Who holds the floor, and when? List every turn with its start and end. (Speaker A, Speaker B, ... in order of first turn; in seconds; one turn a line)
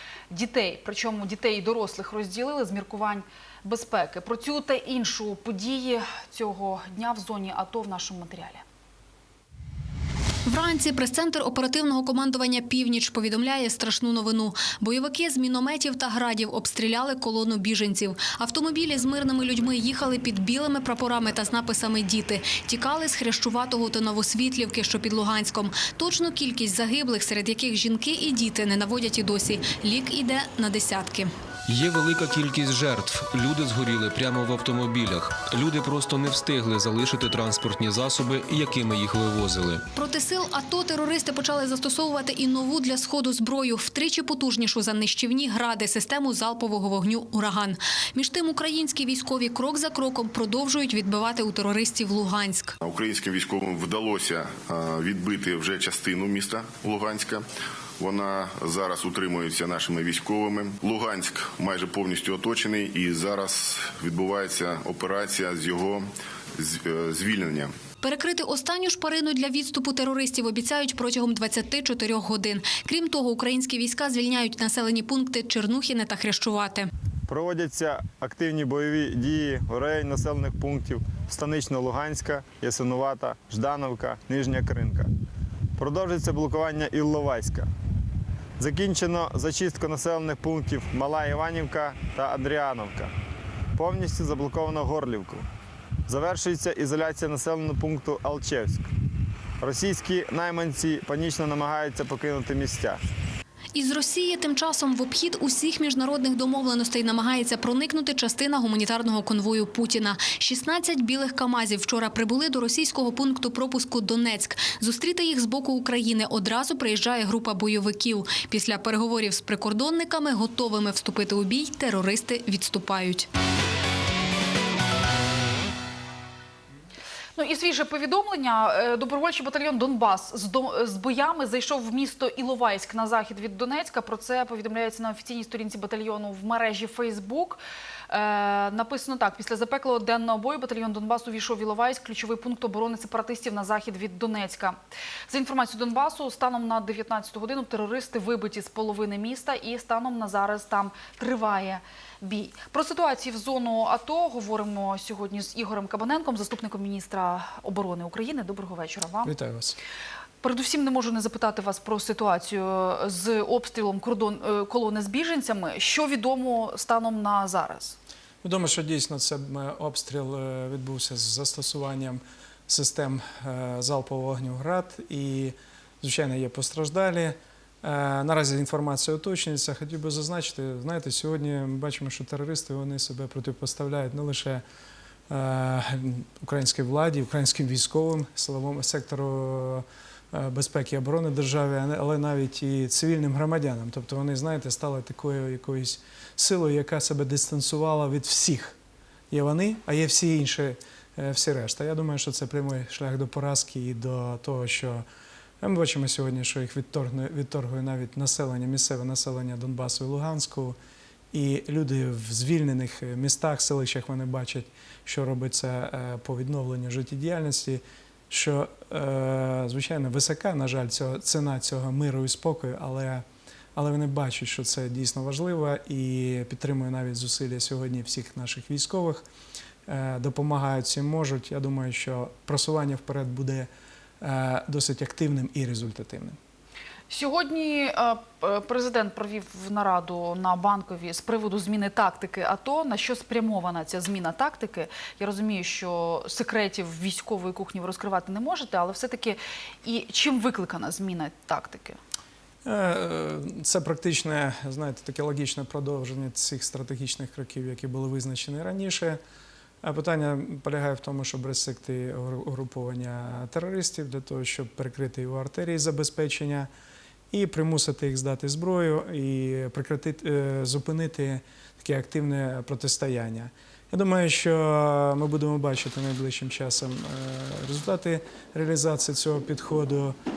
Speaker A: 0.3-8.6
Speaker B: 10.5-31.3
Speaker C: 31.7-39.9
Speaker B: 40.0-52.7
Speaker D: 52.8-57.5
Speaker D: 58.0-67.7
Speaker B: 68.0-76.9
Speaker E: 77.3-85.1
Speaker E: 85.8-87.7
Speaker E: 88.6-93.1
Speaker E: 93.8-95.5
Speaker E: 96.1-98.9
Speaker E: 99.6-103.0
Speaker B: 103.7-123.3
Speaker A: 127.4-144.8
Speaker A: 145.3-159.3
Speaker F: 159.2-159.8
Speaker A: 160.4-168.0
Speaker F: 168.4-184.6
Speaker F: 185.3-198.8
Speaker F: 199.3-205.1
Speaker F: 205.6-210.8
Speaker F: 211.3-229.3
Speaker F: 229.9-236.4
Speaker A: 237.1-252.0
Speaker F: 252.7-259.2
Speaker F: 259.8-266.7
Speaker F: 267.3-280.2